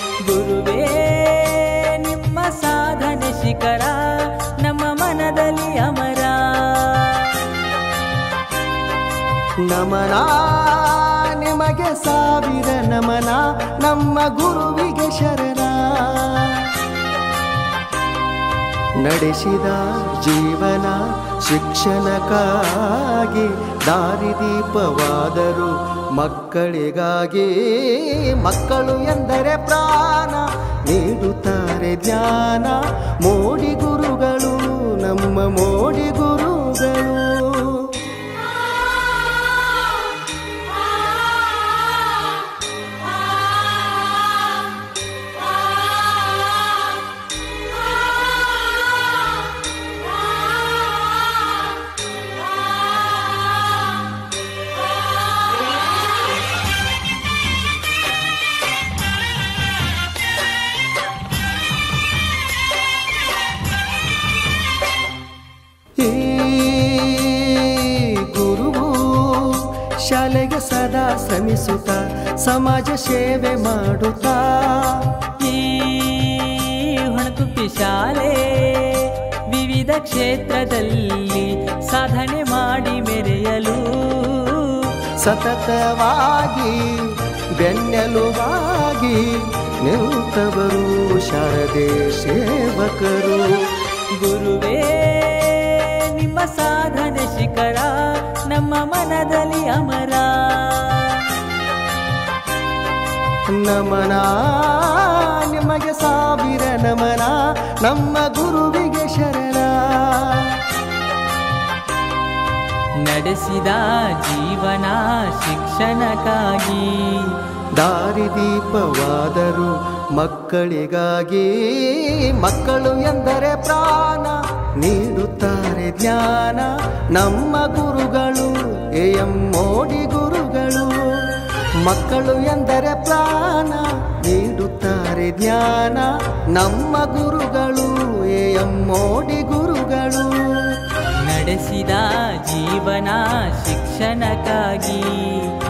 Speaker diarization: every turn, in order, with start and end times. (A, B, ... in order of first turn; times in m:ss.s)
0:00.2-0:07.5 A
0:09.6-0:16.7 B
0:19.0-0:38.0 B
1:06.0-1:15.1 B
1:15.4-1:24.9 A
1:25.2-1:33.5 B
1:34.2-1:41.3 A
1:43.6-1:50.6 B
1:53.0-1:57.4 A
1:57.8-2:11.3 B
2:11.8-2:20.8 B
2:21.2-2:25.5 A